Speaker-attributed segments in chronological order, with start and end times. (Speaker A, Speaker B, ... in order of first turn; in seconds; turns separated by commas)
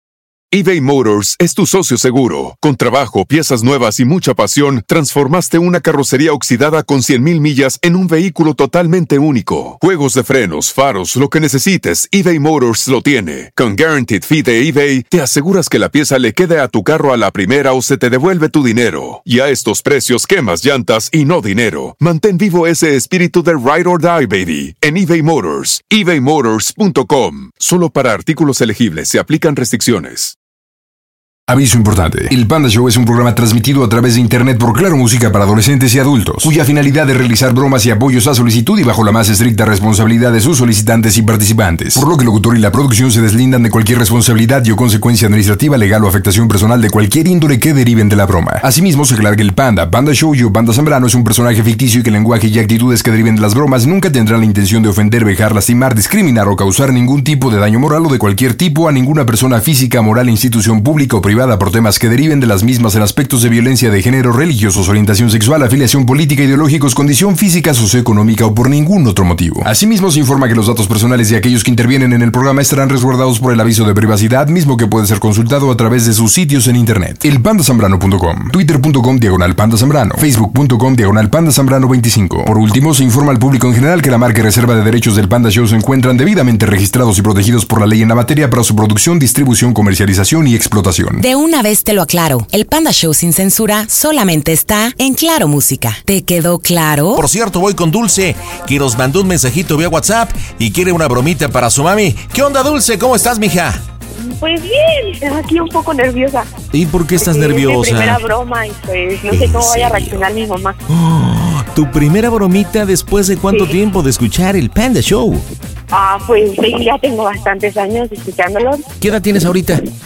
Speaker A: 0.5-30.4, Speaker B: 31.5-91.2, Speaker C: 91.2-97.2, Speaker D: 97.2-103.8, Speaker E: 104.2-106.5, Speaker D: 106.7-108.2, Speaker E: 107.2-110.8, Speaker D: 109.3-110.3, Speaker D: 110.9-115.5, Speaker E: 115.9-118.8, Speaker D: 119.0-119.8